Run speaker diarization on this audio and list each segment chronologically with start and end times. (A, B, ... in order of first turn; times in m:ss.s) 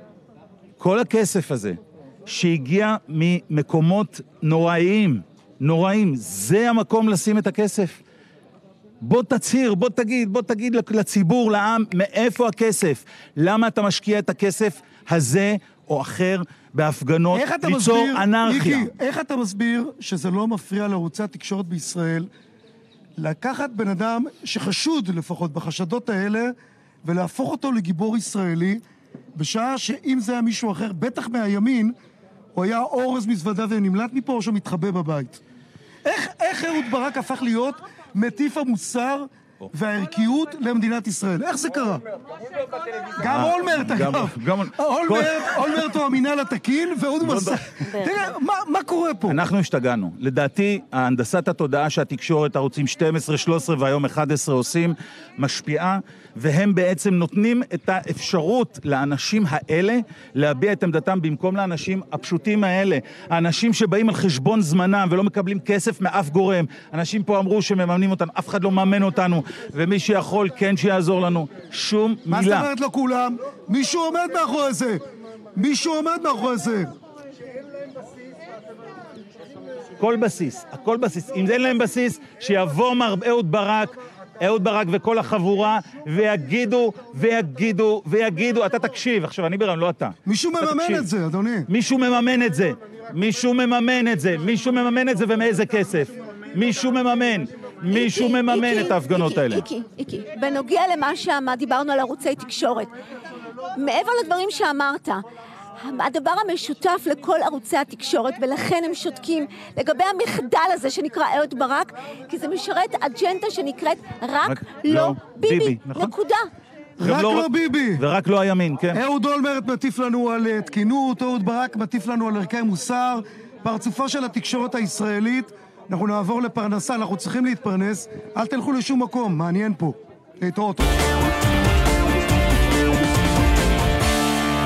0:00.8-0:08.0 A
0:09.0-0:18.9 A
0:17.3-0:22.3 B
0:23.2-0:28.8 B
0:29.4-0:32.0 B
0:32.6-0:35.4 B
0:36.0-0:42.0 B
0:43.2-0:49.4 B
0:43.2-0:45.9 A
0:47.2-0:47.6 A
0:49.3-1:12.7 A
1:12.3-1:15.0 B
1:15.6-1:16.9 B
1:20.0-1:31.1 A
1:30.3-1:31.7 B
1:31.7-1:39.6 A
1:37.9-1:42.9 C
1:43.8-1:45.2 C
1:45.8-1:56.5 C
1:54.4-1:56.1 A
1:57.0-1:58.0 B
1:57.0-1:59.0 A
1:58.9-2:11.0 B